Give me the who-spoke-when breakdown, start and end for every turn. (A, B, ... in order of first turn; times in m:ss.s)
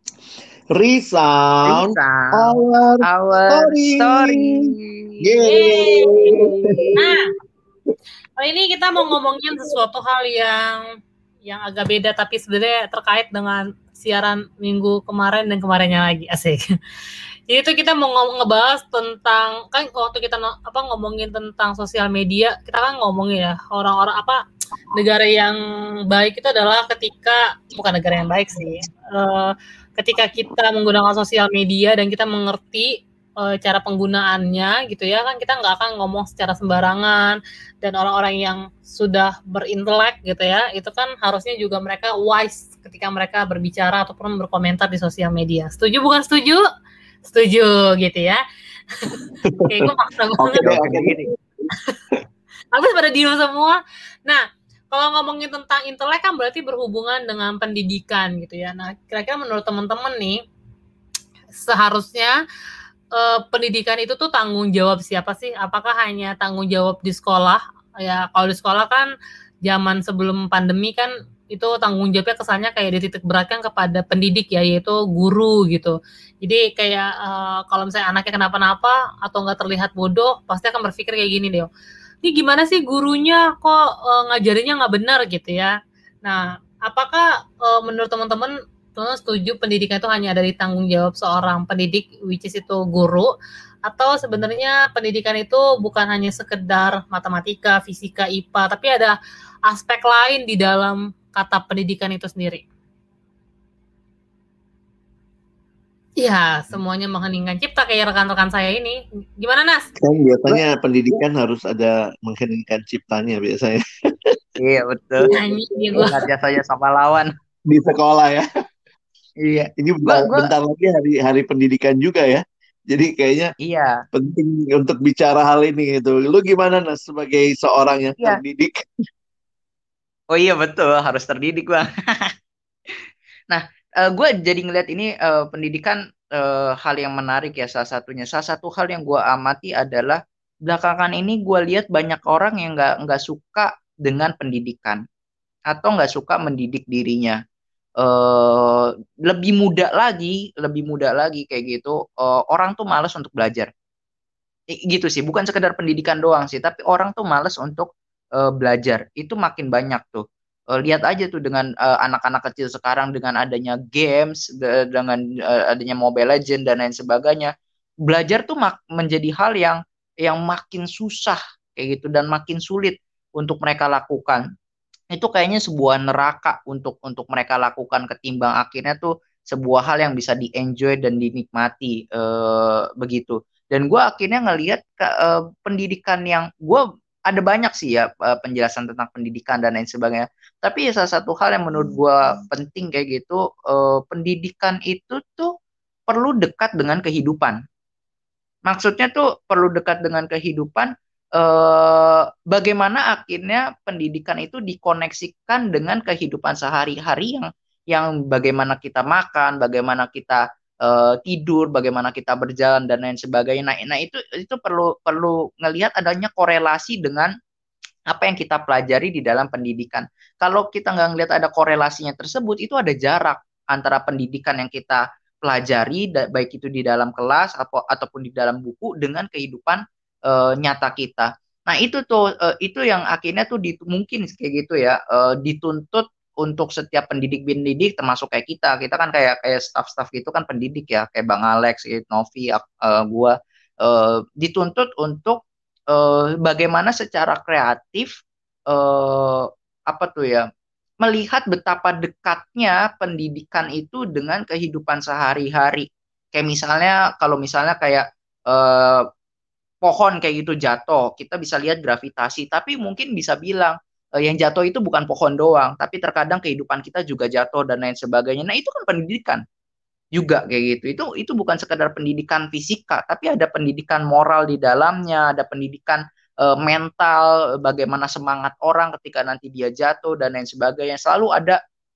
0:00.7-0:04.7 A
0:01.7-0:07.0 B
0:05.2-0:07.1 A
0:05.4-0:07.3 C
0:08.4-0:10.8 C
0:11.4-0:16.6 C
0:17.5-0:24.4 C
0:24.9-0:25.6 C
0:26.1-0:46.6 C
0:47.2-0:48.4 C
0:49.0-0:50.8 C
0:49.4-0:51.3 A
0:50.5-0:51.3 B
0:52.7-1:00.4 C
1:01.5-1:02.4 C
1:03.1-1:09.1 C
1:09.6-1:21.7 C
1:22.2-1:33.3 C
1:33.9-1:42.6 C
1:46.2-1:49.9 C
1:50.0-1:54.4 A
1:54.6-1:55.3 B
1:55.3-1:56.1 A
1:55.3-1:56.2 C
1:56.0-1:57.3 B
1:57.7-1:58.4 A
1:59.4-2:00.5 B
1:59.8-2:03.5 A
2:03.6-2:04.0 B
2:04.1-2:08.9 A
2:10.3-2:12.3 B
2:13.5-2:25.0 B
2:25.7-2:27.4 B
2:28.0-2:33.7 B
2:34.8-2:47.5 B
2:48.1-2:54.4 B
2:55.1-3:15.5 B
3:16.1-3:17.6 B
3:18.7-3:37.3 B
3:38.1-4:08.1 B
4:08.7-4:10.5 B
4:11.0-4:19.1 B
4:19.8-4:29.4 B
4:30.2-4:41.6 B